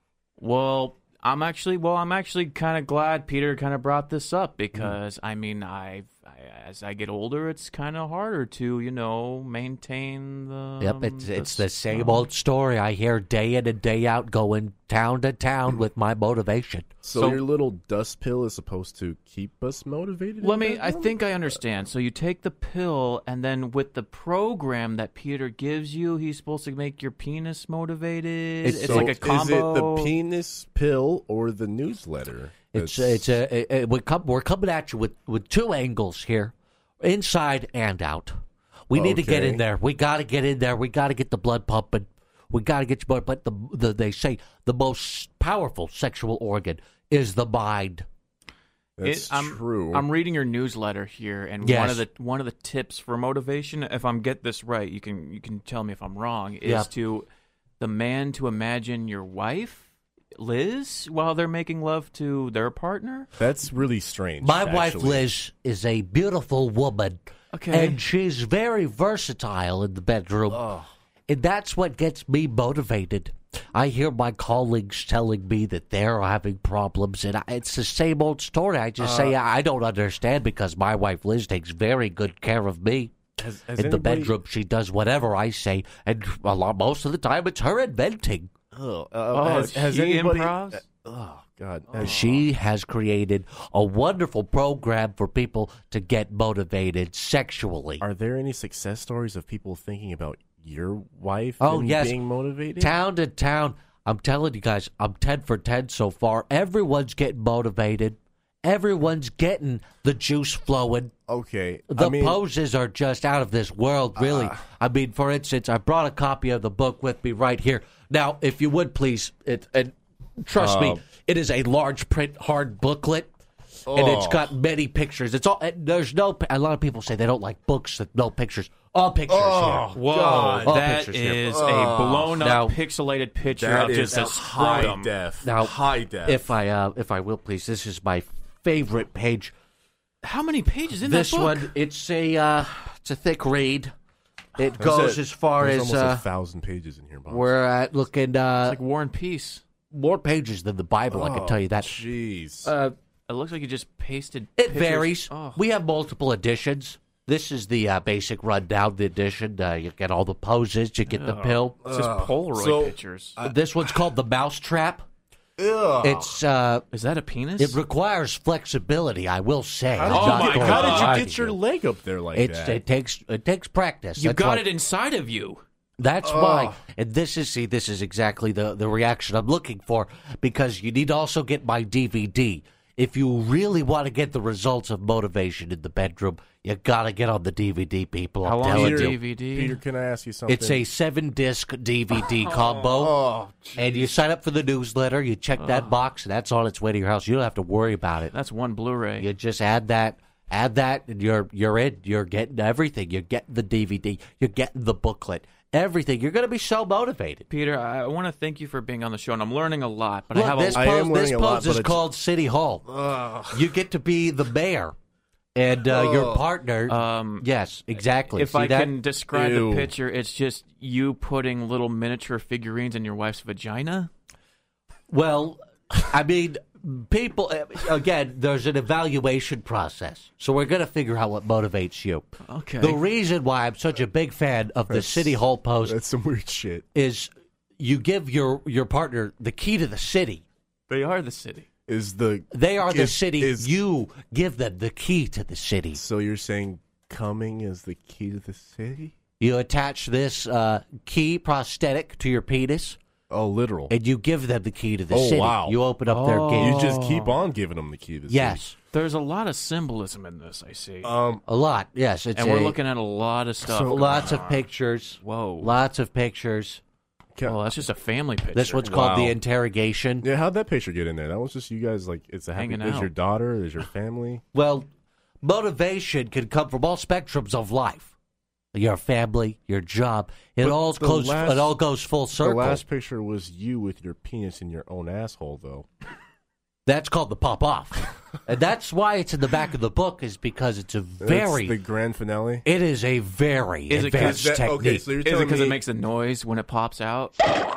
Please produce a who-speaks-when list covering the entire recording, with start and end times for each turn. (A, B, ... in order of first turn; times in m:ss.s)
0:00.4-0:12.3 A
0:10.8-0:16.9 B
0:17.0-0:21.2 C
0:17.1-0:17.4 A
0:20.4-0:30.2 A
0:28.6-0:29.2 B
0:28.8-0:33.4 C
0:32.7-0:38.3 B
0:38.9-0:48.0 B
0:38.9-0:39.6 C
0:49.0-0:50.0 C
0:49.0-0:57.2 A
0:51.6-0:52.0 B
0:56.6-0:56.9 B
0:57.8-1:03.3 A
1:03.4-1:05.3 C
1:04.4-1:10.7 B
1:07.5-1:08.0 A
1:10.5-1:10.9 C
1:11.3-1:23.1 B
1:19.0-1:19.4 C
1:23.4-1:24.4 C
1:23.7-1:28.5 B
1:28.7-1:32.5 C
1:29.3-1:30.8 A
1:31.9-1:32.4 A
1:32.0-1:38.0 B
1:38.0-1:43.0 C
1:41.6-1:42.2 B
1:42.8-1:51.1 B
1:51.3-1:52.4 C
1:51.9-2:03.3 B
1:54.2-1:54.6 C
2:00.6-2:01.0 C
2:03.9-2:04.5 C
2:03.9-2:11.5 B
2:09.3-2:10.8 C
2:09.9-2:15.1 A
2:11.5-2:12.4 C
2:12.4-2:12.8 B
2:13.5-2:16.5 C
2:15.4-2:19.5 B
2:20.2-2:21.7 A
2:21.0-2:23.9 B
2:24.6-2:26.2 B
2:24.8-2:27.5 C
2:27.3-2:28.8 B
2:28.6-2:29.6 A
2:29.9-2:32.0 B
2:31.1-2:32.7 C
2:32.6-2:32.9 B
2:33.3-2:35.6 A
2:34.6-2:41.8 B
2:41.1-2:43.4 A
2:41.8-2:44.0 C
2:43.4-2:45.0 B
2:45.6-2:46.4 C
2:46.0-2:46.8 B
2:46.9-2:47.8 A
2:47.6-2:51.6 B
2:49.9-2:52.8 C
2:50.1-2:51.2 A
2:52.3-2:54.6 B
2:54.2-2:55.6 A
2:56.0-3:09.2 B
2:56.2-2:56.8 C
3:08.4-3:09.8 A
3:08.7-3:10.8 C
3:10.5-3:13.2 B
3:12.1-3:14.1 C
3:13.8-3:18.3 B
3:15.6-3:15.9 A
3:18.3-3:19.3 A
3:19.2-3:27.4 B
3:27.5-3:30.9 A
3:30.3-3:32.9 B
3:30.7-3:32.0 C
3:32.9-3:33.7 C
3:33.5-3:34.9 B
3:35.6-3:38.9 B
3:35.8-3:36.5 C
3:36.9-3:37.5 A
3:38.3-3:44.1 A
3:39.3-3:39.9 C
3:45.1-3:56.0 B
3:52.5-3:53.0 A
3:54.9-3:56.8 C
3:56.9-4:00.4 B
4:00.9-4:01.6 A
4:01.9-4:03.7 C
4:02.5-4:06.0 B
4:05.9-4:09.1 C
4:09.4-4:13.0 B
4:13.3-4:13.9 C
4:13.9-4:16.8 B
4:15.1-4:15.8 C
4:16.1-4:17.4 A
4:16.5-4:18.6 C
4:18.3-4:18.8 B
4:18.9-4:21.1 A
4:21.0-4:21.4 C
4:21.4-4:22.8 B
4:22.3-4:24.7 A
4:23.6-4:24.3 C
4:23.8-4:26.8 B
4:25.2-4:25.8 A
4:27.3-4:27.6 C
4:27.4-4:28.9 A
4:28.5-4:30.3 B
4:28.8-4:29.4 C
4:30.2-4:34.4 C
4:32.6-4:33.1 A
4:34.5-4:34.9 B
4:35.4-4:38.1 B
4:38.7-4:42.8 B
4:40.6-4:41.8 C
4:42.4-4:45.9 C
4:46.8-4:51.8 B
4:51.2-4:52.6 C
4:52.6-4:55.1 B
4:53.9-4:54.5 A
4:54.1-4:55.8 C
4:55.2-4:57.4 A